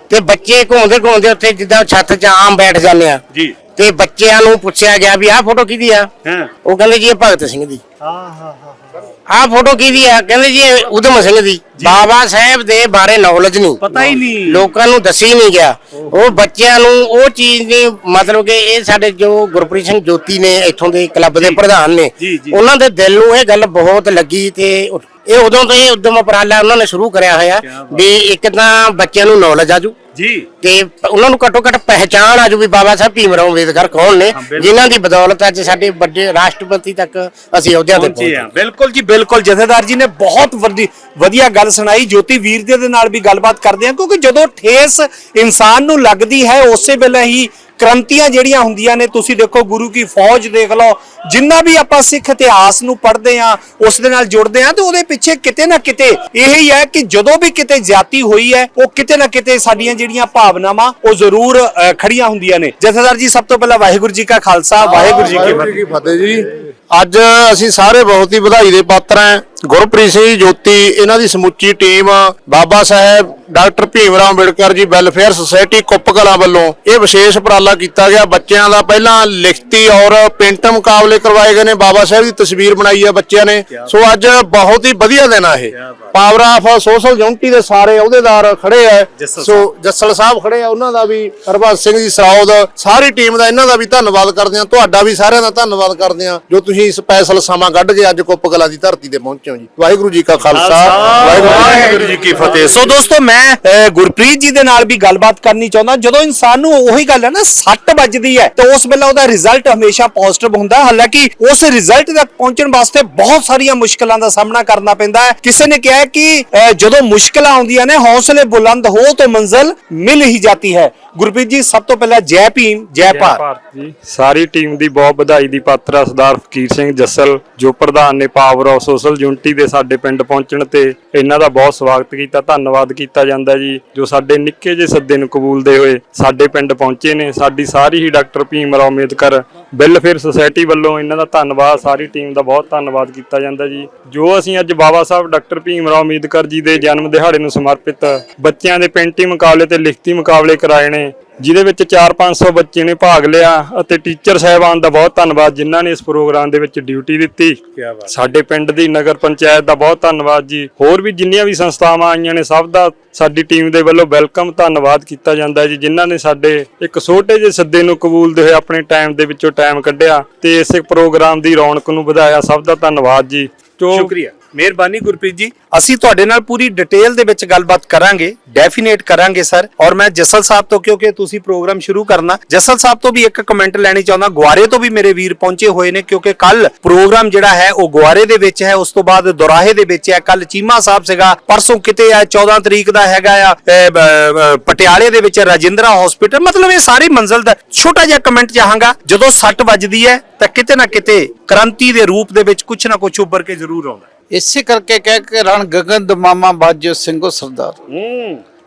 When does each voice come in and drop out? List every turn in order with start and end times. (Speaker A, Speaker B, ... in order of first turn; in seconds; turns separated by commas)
Speaker A: 0.1-3.2, Speaker B: 3.3-3.5, Speaker A: 3.8-6.1, Speaker B: 6.2-6.5, Speaker A: 6.6-7.8, Speaker B: 8.0-9.1, Speaker A: 9.3-30.0, Speaker B: 11.8-12.1, Speaker B: 13.8-14.7, Speaker B: 15.9-16.4, Speaker B: 21.4-21.6, Speaker B: 22.2-22.6, Speaker B: 27.6-28.1, Speaker B: 30.1-30.5, Speaker A: 30.6-38.5, Speaker B: 34.3-34.9, Speaker B: 37.9-65.7, Speaker C: 64.9-101.8, Speaker B: 85.7-86.1, Speaker B: 89.2-89.7, Speaker B: 100.5-123.4, Speaker D: 123.0-174.1, Speaker B: 157.8-158.0, Speaker B: 173.8-204.0, Speaker E: 204.3-207.8, Speaker B: 207.9-208.4